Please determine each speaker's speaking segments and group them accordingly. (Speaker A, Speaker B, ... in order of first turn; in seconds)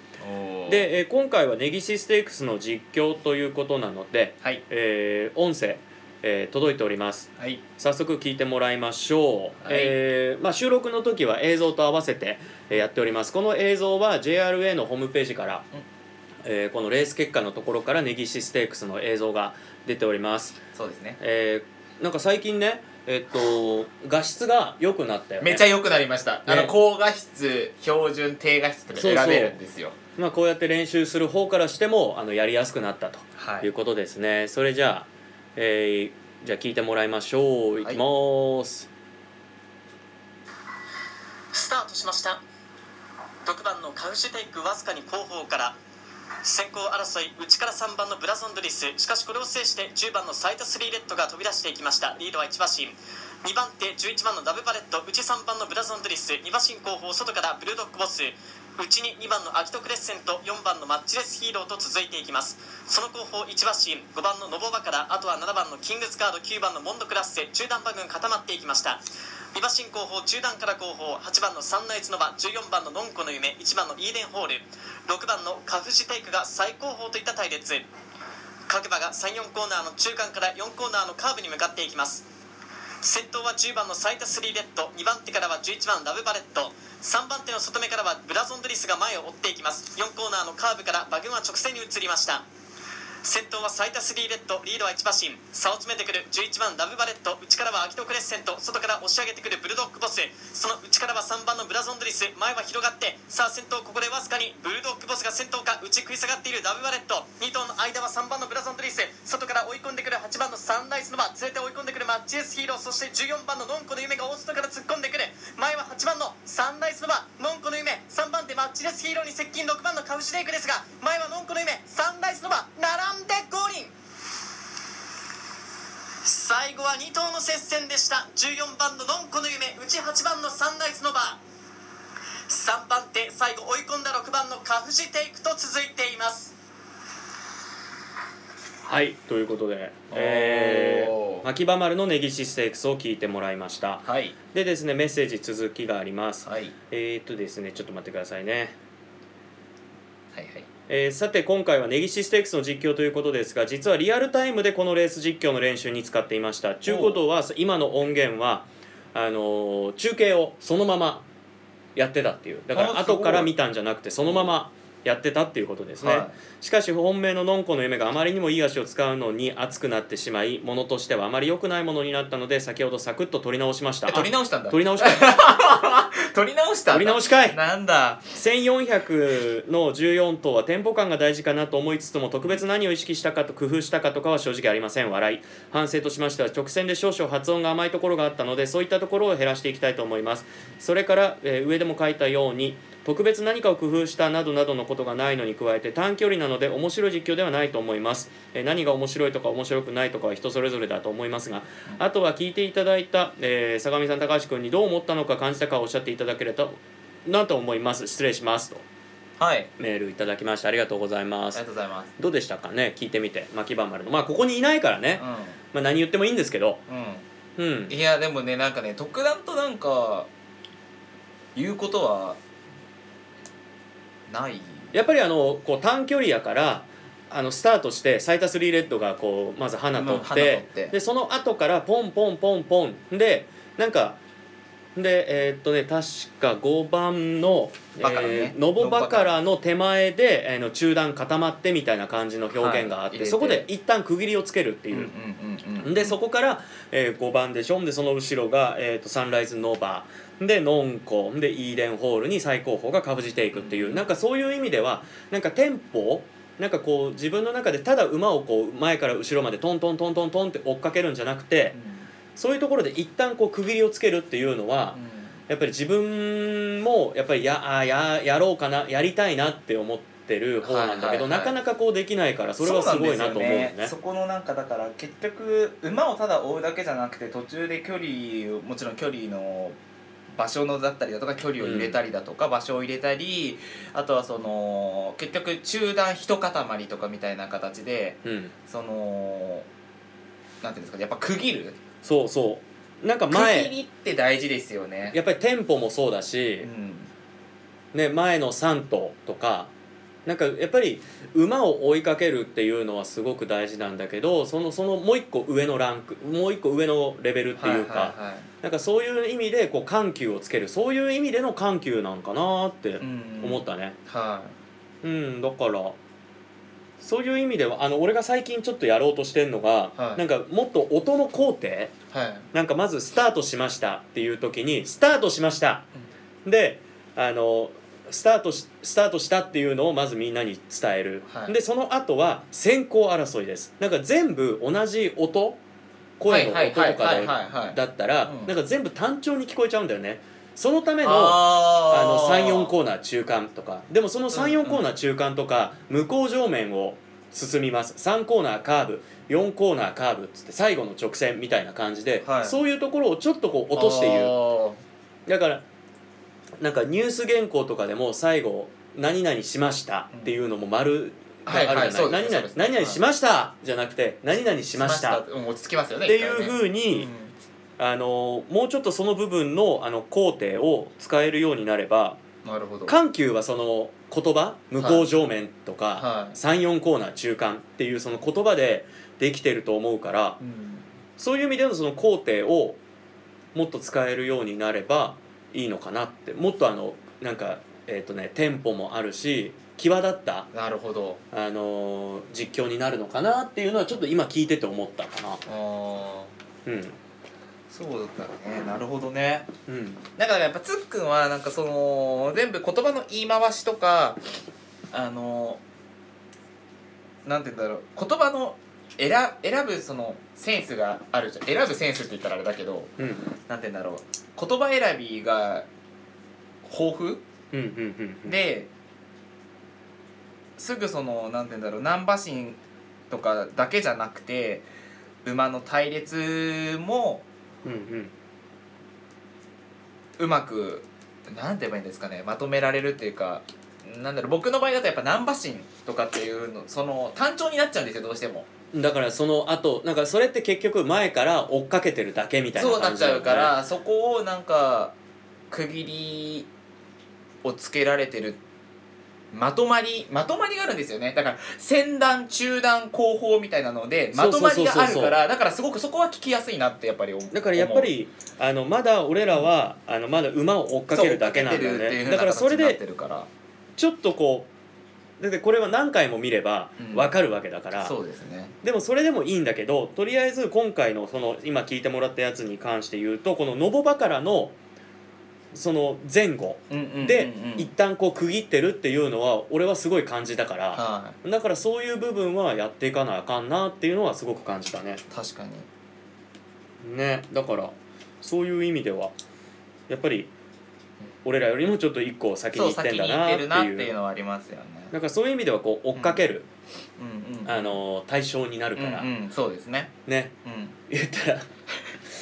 Speaker A: 0.2-0.9, 9.6-10.0, 20.8-21.2, 25.4-30.0, 33.4-33.7, 140.1-141.5, 144.1-144.3, 146.4-146.7, 150.3-150.7, 156.9-157.2, 162.7-163.5, 164.3-164.5, 166.0-166.3, 174.1-178.2, 209.4-209.7, 211.6-212.1, 215.2-215.6, 216.9-217.2, 217.9-220.3, 221.6-222.4, 224.3-224.9, 229.9-231.0, 238.0-239.4, 242.5-243.7, 244.9-246.2, 253.5-254.1, 261.7-262.1, 264.9-265.4, 270.6-271.6, 272.6-279.8, 280.4-289.7, 290.6-291.8, 293.3-295.2, 296.6-297.1, 307.6-308.5, 313.0-314.6, 320.0-320.2, 322.1-322.5, 331.3-331.5, 336.3-338.5, 341.0-342.7, 344.3-344.9, 352.2-352.6, 353.7-354.8, 361.5-363.0, 364.7-367.3, 372.4-373.0, 374.8-375.1, 376.0-376.4, 380.4-380.9, 390.5-391.2, 395.5-396.3, 397.7-399.5, 400.2-404.2, 404.9-405.6, 407.2-412.9, 413.5-415.7, 416.6-417.2, 418.3-418.7, 420.6-422.6, 423.1-424.7, 425.2-427.2, 430.2-438.5, 442.6-444.9, 445.5-446.5, 447.4-448.4, 449.3-457.9, 460.9-463.3, 466.8-467.1, 467.8-468.6, 476.7-477.7, 480.7-481.2, 485.1-485.7, 492.5-494.9, 496.0-496.2, 497.0-497.8, 498.8-499.9, 500.4-500.8
Speaker B: 0.7-15.7, 16.4-20.6, 21.2-25.6, 26.5-26.7, 28.9-29.6, 30.2-38.9, 138.8-148.8, 150.9-161.3, 161.9-175.4, 176.9-177.6, 178.3-208.8, 209.8-211.6, 212.2-215.2, 215.7-216.8, 217.6-217.9, 224.9-234.2, 235.0-245.1, 245.8-261.8, 262.4-273.9, 281.6-282.0, 288.2-288.5, 292.0-293.7, 295.1-296.7, 297.9-299.7, 300.3-314.0, 315.0-316.0, 317.0-321.9, 322.5-325.9, 326.4-335.6, 336.2-354.3, 355.3-355.6, 356.6-365.2, 366.1-367.1, 367.8-372.2, 372.9-380.4, 381.2-382.8, 383.5-390.5, 391.3-395.4, 396.7-397.0, 399.7-400.0, 413.0-413.3, 417.5-418.4, 427.6-428.1, 438.7-443.6, 454.1-455.2, 457.3-462.8, 463.8-464.5, 465.2-467.9, 468.6-474.6, 475.5-485.0, 486.8-489.1, 489.9-490.3, 491.2-493.9, 494.9-496.5, 497.4-499.1, 500.1-500.4, 500.9-501.5
Speaker C: 41.5-42.4, 43.4-45.8, 46.4-69.0, 69.5-77.9, 78.7-82.3, 83.0-92.5, 93.2-123.9, 126.2-131.4, 132.5-136.5